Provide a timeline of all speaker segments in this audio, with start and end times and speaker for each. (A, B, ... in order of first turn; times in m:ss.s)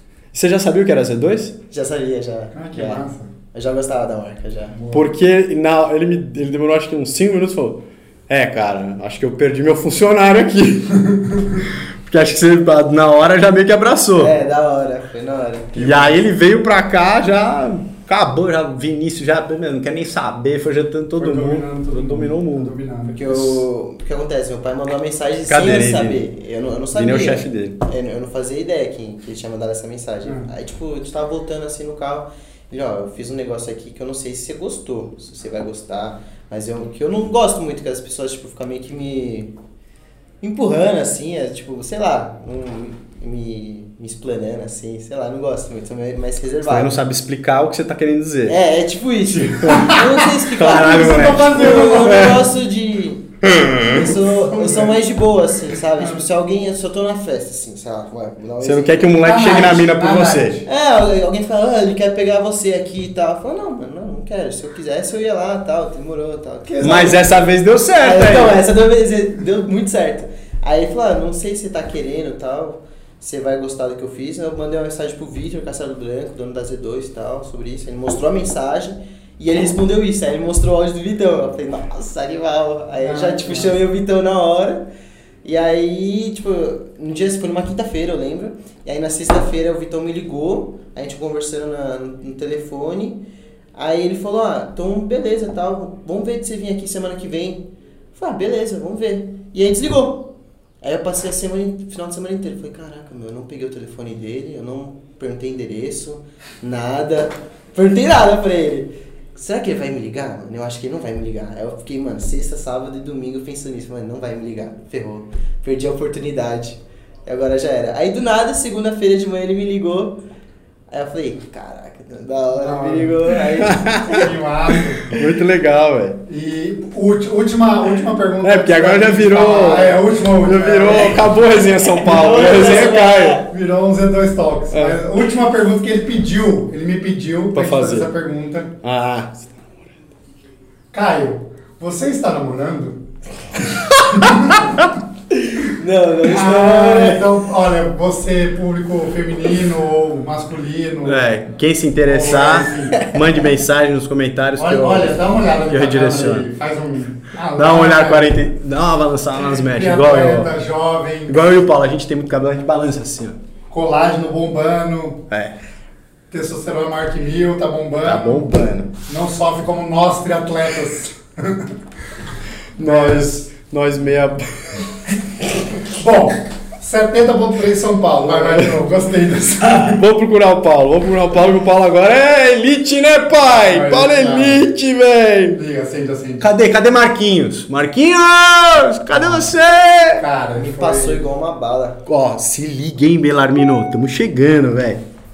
0:00.3-0:01.6 A
0:01.7-0:04.8 B
0:02.5-0:03.3 C
0:04.8-0:05.1 C
0:04.9-0:14.4 A
0:14.2-0:16.3 B
0:15.7-0:22.8 A
0:21.2-0:23.6 C
0:23.1-0:39.5 B
0:25.5-0:26.2 A
0:26.9-0:27.8 A
0:40.4-0:46.9 B
0:46.6-0:48.6 A
0:48.5-0:59.1 B
0:49.5-0:49.9 A
0:49.7-0:52.4 C
0:50.6-0:52.5 A
0:53.4-0:54.1 A
0:54.2-0:55.0 C
0:58.6-1:00.6 A
0:59.2-1:00.7 C
1:00.7-1:07.3 B
1:06.7-1:07.2 C
1:06.8-1:08.6 A
1:08.0-1:24.9 B
1:23.0-1:23.8 C
1:25.4-1:33.2 B
1:33.8-1:40.3 B
1:40.8-2:00.2 B
2:00.9-2:04.3 B
2:02.6-2:03.4 C
2:03.6-2:04.3 A
2:04.0-2:05.2 C
2:05.1-2:06.2 A
2:06.3-2:11.4 C
2:08.4-2:13.4 A
2:11.1-2:13.4 B
2:12.4-2:12.6 C
2:13.4-2:18.7 C
2:14.7-2:15.0 A
2:17.5-2:18.1 A
2:18.8-2:19.9 A
2:20.9-2:23.0 C
2:24.0-2:24.9 A
2:24.1-2:24.8 C
2:25.3-2:27.3 B
2:26.2-2:31.5 C
2:31.0-2:36.5 A
2:32.0-2:33.1 C
2:34.6-2:38.4 C
2:37.6-2:40.5 A
2:39.4-2:41.4 C
2:41.3-2:43.4 A
2:43.7-2:45.2 C
2:45.3-2:45.6 A
2:46.3-2:51.7 C
2:48.0-2:48.9 A
2:52.8-2:54.9 A
2:52.8-2:53.4 C
2:55.8-3:00.0 C
2:58.3-2:58.8 A
2:59.7-3:05.6 A
3:03.5-3:04.6 C
3:05.5-3:06.5 C
3:06.4-3:10.3 A
3:09.1-3:09.5 C
3:10.2-3:11.2 C
3:10.5-3:12.0 B
3:12.1-3:15.0 A